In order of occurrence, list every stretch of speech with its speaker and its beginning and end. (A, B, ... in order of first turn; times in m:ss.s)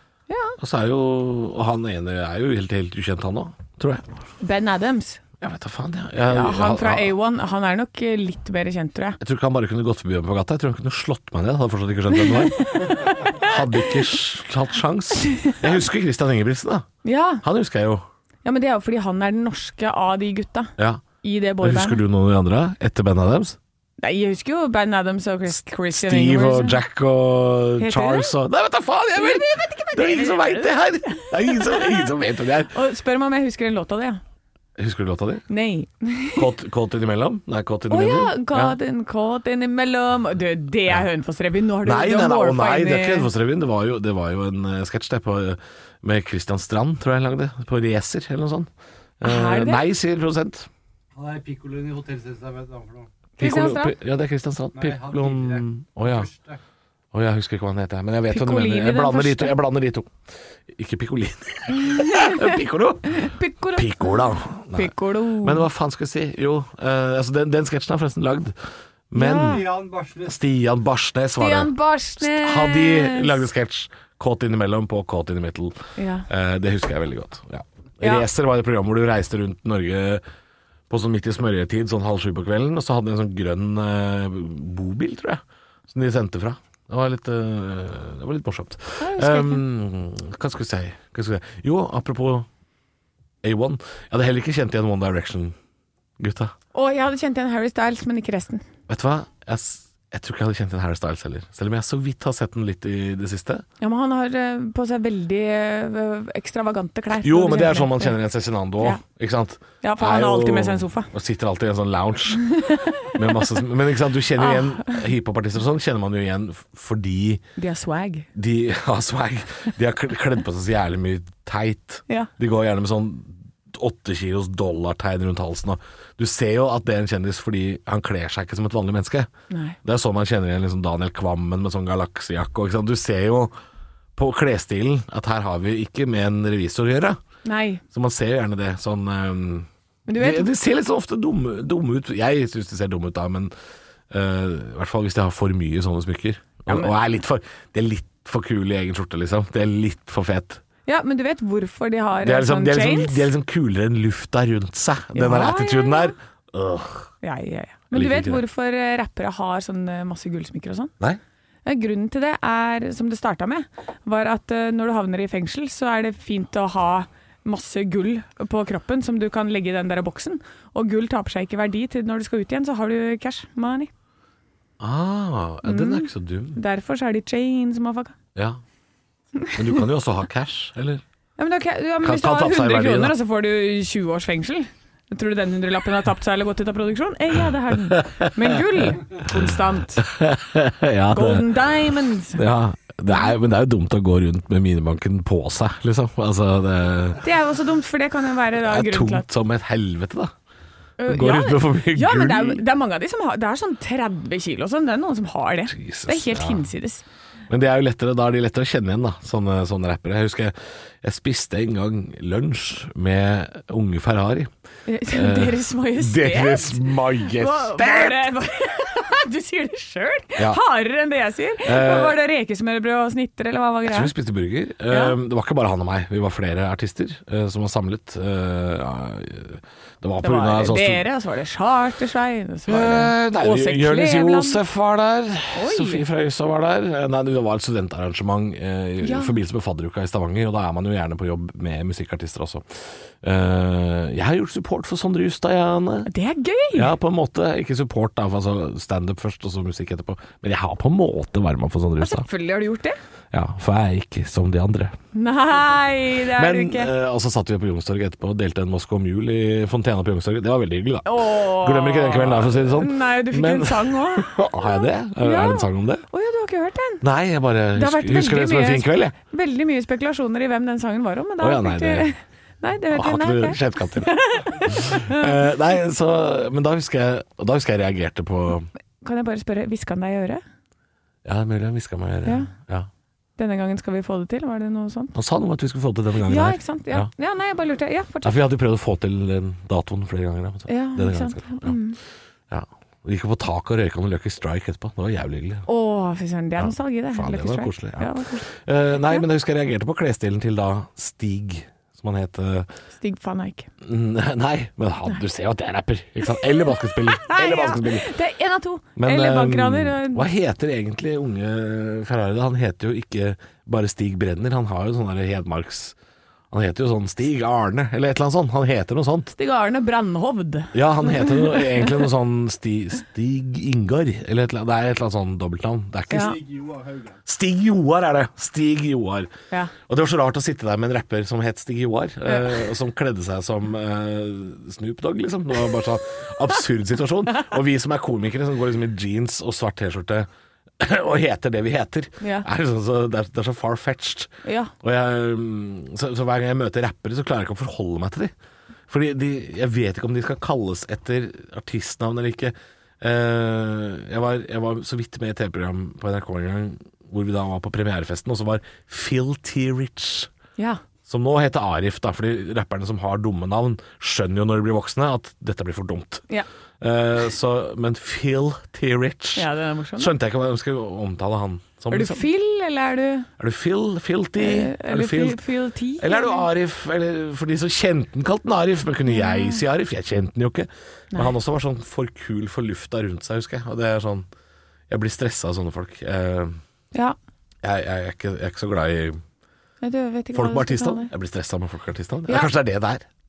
0:00.3-0:00.6 A
0:00.6-0:04.2 B
0:04.4-0:05.2 A
0:05.4-0:07.1 B
0:06.2-0:09.2 A
0:09.2-0:16.9 B
0:12.1-0:13.9 A
0:15.2-0:15.6 A
0:17.0-0:17.4 A
0:17.4-0:18.0 B
0:18.4-0:22.0 A
0:20.8-0:21.0 B
0:21.6-0:23.6 B
0:24.0-0:26.8 A
0:25.9-0:32.7 B
0:27.8-0:28.3 A
0:29.1-0:32.1 A
0:32.7-0:34.2 A
0:34.8-0:35.5 B
0:35.5-0:36.5 A
0:36.4-0:38.8 B
0:37.9-0:43.3 A
0:41.8-0:50.7 B
0:49.2-0:49.9 A
0:51.1-0:53.2 C
0:53.4-0:53.9 A
0:53.4-0:56.3 B
0:54.7-0:56.6 C
0:57.1-1:00.1 B
0:58.3-0:59.6 A
1:00.7-1:08.6 B
1:01.7-1:05.7 A
1:09.1-1:15.8 B
1:09.1-1:09.6 A
1:09.4-1:10.4 C
1:11.4-1:13.4 A
1:16.0-1:16.3 A
1:16.3-1:20.2 B
1:18.0-1:18.3 A
1:20.9-1:32.5 B
1:29.0-1:29.6 A
1:33.4-1:35.6 B
1:36.2-1:36.5 B
1:36.7-1:38.6 A
1:38.9-1:43.6 B
1:43.8-1:48.2 A
1:47.2-1:52.5 B
1:49.8-1:51.1 A
1:52.3-1:53.6 A
1:53.0-1:57.4 B
1:54.4-1:55.0 A
1:57.6-1:58.3 A
1:58.3-2:09.3 B
2:09.5-2:09.8 A
2:09.8-2:13.5 B
2:14.2-2:17.2 B
2:17.4-2:17.8 A
2:17.9-2:23.5 B
2:20.1-2:20.5 A
2:24.1-2:30.6 B
2:26.7-2:26.9 A
2:30.9-2:33.3 A
2:32.2-2:37.1 B
2:35.1-2:36.1 A
2:37.2-2:40.9 A
2:37.9-2:38.4 B
2:41.6-2:53.9 A
2:54.8-2:56.6 B
2:55.6-2:58.1 A
2:58.3-2:58.6 B
2:59.5-3:01.0 B
3:01.4-3:10.1 A
3:02.0-3:03.1 B
3:08.0-3:09.4 B
3:10.0-3:11.5 B
3:11.1-3:12.4 A
3:12.3-3:17.2 B
3:17.2-3:19.2 A
3:18.6-3:20.3 B
3:21.0-3:27.0 A
3:21.1-3:22.6 B
3:25.7-3:26.6 B
3:27.5-3:34.5 B
3:34.9-3:44.1 A
3:35.1-3:38.3 B
3:41.6-3:42.2 B
3:43.9-3:51.0 B
3:44.9-3:45.2 A
3:50.2-3:54.6 A
3:52.7-4:06.1 B
3:55.5-3:56.0 A
3:59.0-3:59.4 A
4:06.1-4:06.9 A
4:06.7-4:12.3 B
4:12.0-4:13.0 A
4:13.3-4:15.0 B
4:15.1-4:16.9 A
4:16.3-4:26.0 B
4:21.0-4:27.0 A
4:27.0-4:29.2 B
4:27.7-4:35.4 A
4:31.4-4:32.1 B
4:32.9-4:38.7 B
4:39.0-4:40.4 A
4:41.2-4:42.9 B
4:42.2-4:42.5 A
4:43.4-4:45.2 A
4:45.2-4:47.1 B
4:46.2-4:48.4 A
4:48.2-4:51.7 B
4:50.7-4:52.0 A
4:52.5-4:55.7 B
4:55.7-4:58.5 A
4:56.6-5:02.7 B
5:02.9-5:03.7 A
5:03.8-5:08.1 B
5:06.4-5:10.3 A
5:09.0-5:15.9 B
5:16.5-5:19.3 B
5:19.3-5:22.1 A
5:20.7-5:26.4 B
5:26.1-5:26.4 A
5:26.1-5:27.2 C
5:27.2-5:29.3 B
5:29.8-5:40.3 B
5:40.8-5:48.3 B
5:42.2-5:42.4 A
5:44.4-5:44.7 A
5:48.9-6:00.3 B
6:01.1-6:06.2 B
6:06.8-6:12.2 B
6:09.4-6:10.1 A
6:11.9-6:13.3 A
6:13.4-6:15.4 B
6:14.4-6:16.5 A
6:16.0-6:24.3 B
6:19.1-6:19.6 A
6:24.9-6:26.6 B
6:27.6-6:29.2 B
6:29.8-6:31.1 A
6:30.3-6:33.0 B